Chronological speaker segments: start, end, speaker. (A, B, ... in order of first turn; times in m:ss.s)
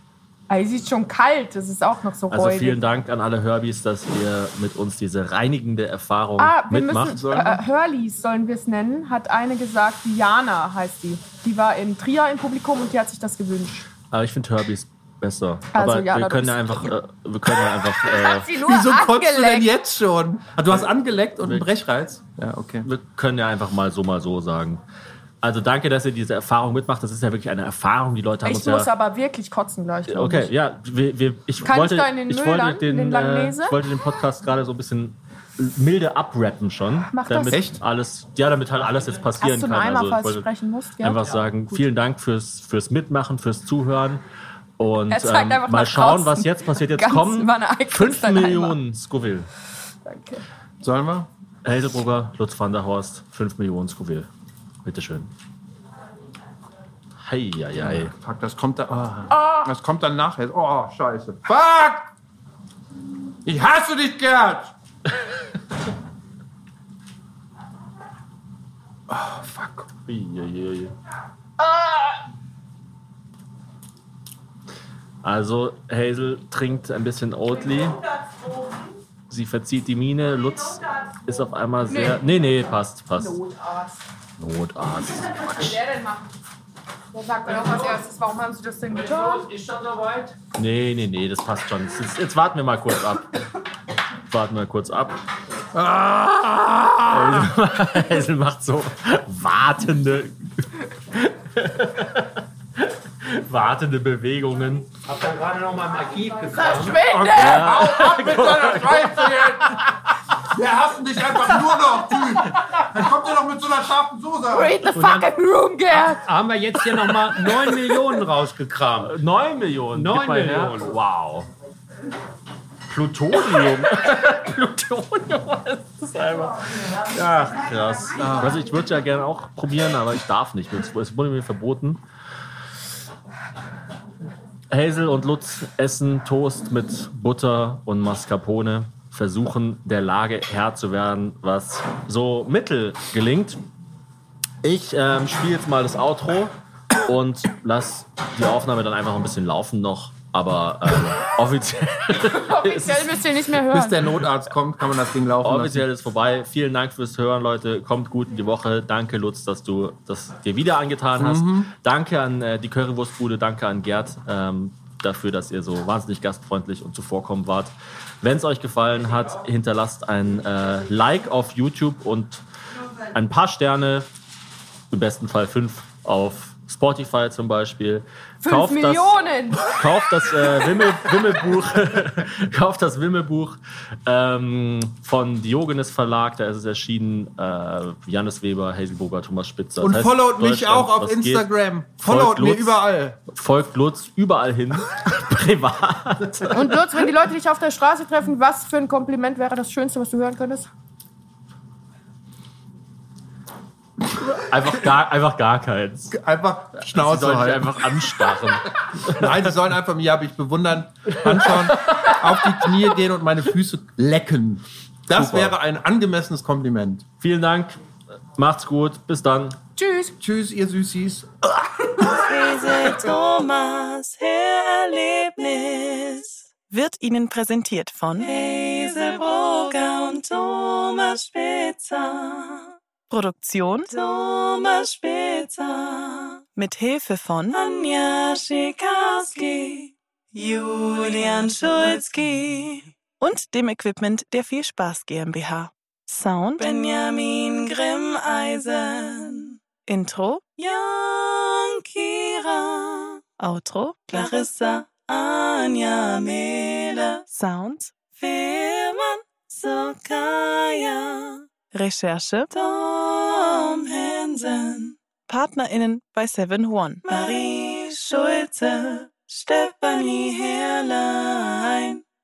0:00.5-0:02.8 A
0:02.3-0:07.2 B
0:06.4-0:13.9 A
0:07.1-0:07.6 C
0:14.1-0:18.5 B
0:15.7-0:16.9 A
0:18.0-0:19.7 A
0:18.5-0:22.9 C
0:21.4-0:21.7 B
0:22.8-0:24.8 B
0:25.4-0:28.9 B
0:28.4-0:30.5 A
0:30.1-0:40.5 B
0:31.6-0:33.8 A
0:37.1-0:37.6 A
0:37.5-0:37.8 C
0:39.4-0:41.8 A
0:41.0-0:44.2 B
0:44.8-0:49.5 B
0:45.1-0:48.8 A
0:50.1-0:50.4 A
0:50.8-0:51.3 C
0:51.6-0:54.3 B
0:54.8-0:55.3 B
0:57.2-0:58.1 B
0:57.8-1:02.1 C
0:59.3-0:59.7 A
1:03.4-1:04.7 C
1:09.1-1:09.9 C
1:10.1-1:11.0 B
1:15.2-1:18.0 B
1:19.3-1:23.4 B
1:21.9-1:22.5 A
1:23.1-1:24.0 A
1:24.4-1:25.8 B
1:25.5-1:26.3 A
1:27.1-1:29.5 A
1:28.9-1:30.4 D
1:30.6-1:33.4 B
1:34.3-1:35.2 B
1:35.7-1:37.5 C
1:37.1-1:44.9 B
1:45.1-1:47.0 D
1:46.6-1:48.0 A
1:47.0-1:49.8 C
1:47.3-1:50.0 B
1:50.5-1:54.8 C
1:54.5-1:56.2 A
1:54.9-1:55.3 D
1:56.0-1:59.2 D
1:59.0-2:01.5 B
1:59.9-2:00.9 D
2:02.9-2:12.0 B
2:08.2-2:08.6 C
2:14.7-2:23.6 B
2:24.6-2:26.5 B
2:27.0-2:33.2 B
2:32.2-2:34.0 A
2:33.6-2:35.9 C
2:35.4-2:52.4 B
2:41.2-2:41.7 C
2:53.1-2:54.1 B
2:54.9-3:11.5 B
2:58.4-2:59.8 A
3:09.8-3:13.2 C
3:12.0-3:16.6 B
3:16.5-3:20.7 A
3:24.1-3:26.2 B
3:26.1-3:28.1 C
3:26.9-3:29.3 B
3:29.1-3:37.0 C
3:35.1-3:35.6 B
3:37.2-3:37.8 B
3:38.4-3:39.6 B
3:39.8-3:40.2 A
3:40.2-3:42.2 C
3:42.0-4:32.0 E